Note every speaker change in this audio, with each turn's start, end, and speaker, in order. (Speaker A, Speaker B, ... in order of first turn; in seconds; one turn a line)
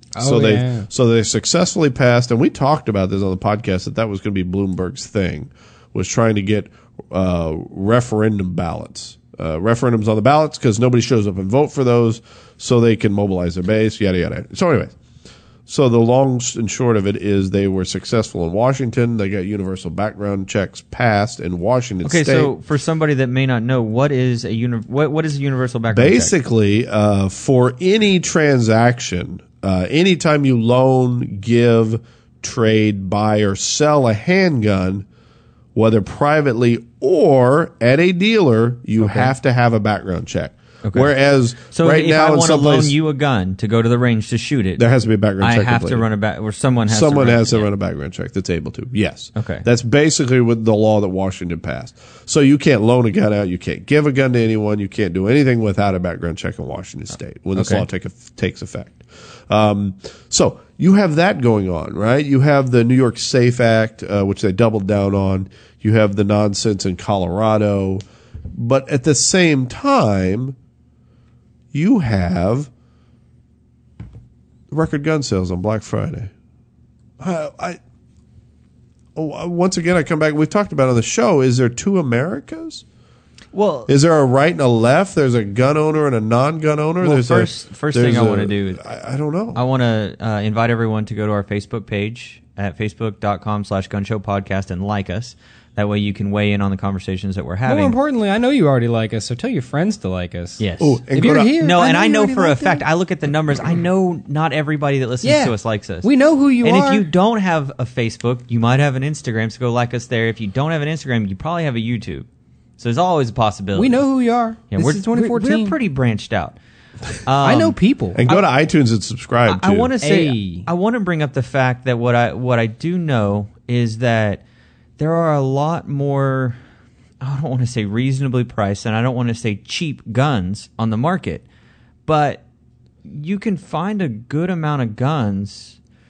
Speaker A: 0.1-0.9
Speaker B: 0.2-14.9
Speaker B: 15.7-22.5
Speaker C: 22.0-26.3
Speaker B: 25.9-35.0
Speaker B: 35.7-42.9
Speaker C: 39.0-39.3
Speaker C: 40.8-44.8
Speaker B: 44.8-46.1
Speaker C: 45.4-47.7
Speaker B: 46.9-68.0
Speaker C: 49.3-49.6
Speaker C: 57.5-57.9
Speaker B: 68.5-70.5
Speaker B: 71.7-72.7
Speaker B: 74.7-76.3
Speaker B: 77.2-77.8
Speaker B: 79.2-82.8
Speaker C: 83.5-83.9
Speaker B: 83.9-89.6
Speaker C: 87.0-88.8
Speaker C: 89.5-98.0
Speaker A: 97.7-102.8
Speaker C: 100.6-101.0
Speaker B: 100.8-101.5
Speaker C: 101.6-106.1
Speaker A: 105.2-107.0
Speaker C: 106.6-112.2
Speaker C: 112.8-114.0
Speaker A: 113.8-115.8
Speaker C: 114.7-116.6
Speaker C: 117.2-118.5
Speaker A: 117.4-118.2
Speaker B: 118.1-119.9
Speaker C: 119.5-124.4
Speaker A: 120.0-120.7
Speaker C: 125.0-126.6
Speaker C: 127.2-131.4
Speaker C: 132.1-132.4
Speaker C: 133.1-135.8